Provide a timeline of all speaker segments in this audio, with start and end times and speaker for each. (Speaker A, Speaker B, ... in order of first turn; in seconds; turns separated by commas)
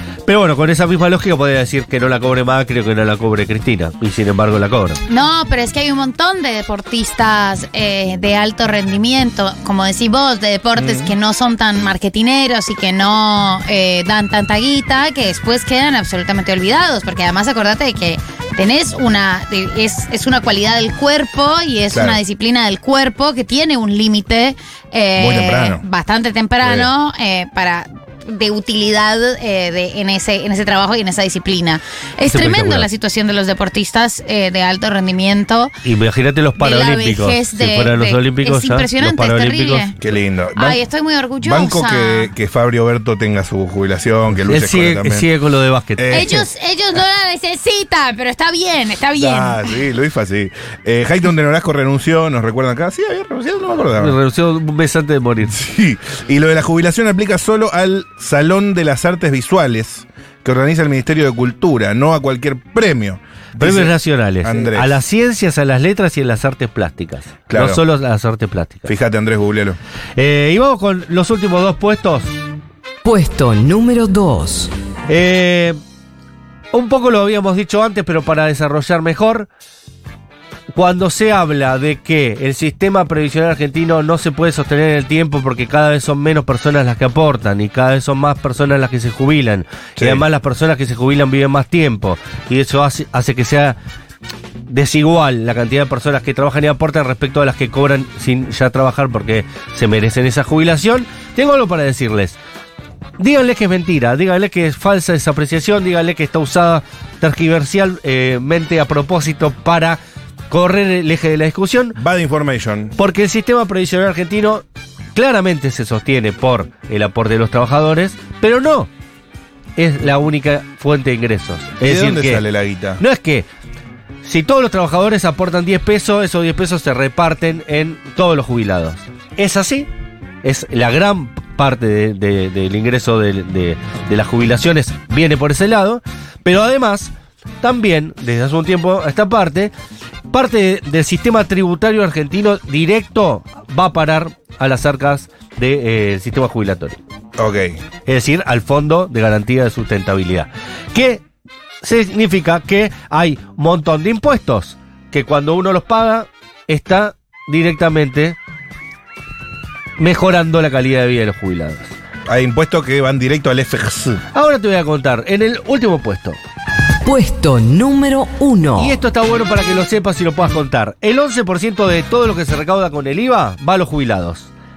Speaker A: 0.3-5.0, Speaker B: 5.1-35.7, Speaker C: 10.8-11.1, Speaker C: 21.9-22.2, Speaker C: 25.2-25.8, Speaker C: 26.6-26.9, Speaker A: 32.3-32.9, Speaker A: 35.8-39.9, Speaker B: 36.6-39.9, Speaker C: 40.0-40.8, Speaker B: 40.5-42.3, Speaker C: 41.4-45.3, Speaker A: 44.5-46.4, Speaker C: 46.0-46.4, Speaker B: 46.1-49.8, Speaker C: 49.2-54.1, Speaker A: 54.0-55.6, Speaker C: 55.5-65.0, Speaker A: 63.6-68.9, Speaker C: 67.5-67.8, Speaker C: 68.9-69.8, Speaker A: 70.2-72.3, Speaker D: 73.0-74.7, Speaker A: 75.1-75.8, Speaker A: 76.7-79.5, Speaker A: 80.7-93.8, Speaker C: 90.0-90.2, Speaker A: 94.7-102.4, Speaker A: 103.2-110.0, Speaker A: 110.5-112.0, Speaker C: 112.0-113.0, Speaker A: 113.0-114.6, Speaker A: 115.1-118.9, Speaker A: 119.8-122.4, Speaker C: 121.8-123.0, Speaker A: 123.0-123.5, Speaker A: 124.2-129.9, Speaker A: 130.4-137.1, Speaker A: 137.6-139.7, Speaker A: 140.3-147.0, Speaker C: 147.4-147.8, Speaker A: 148.1-151.2, Speaker A: 151.8-158.3, Speaker A: 160.0-161.9, Speaker C: 162.2-164.2, Speaker A: 164.3-166.4, Speaker D: 167.0-169.0, Speaker A: 168.8-174.5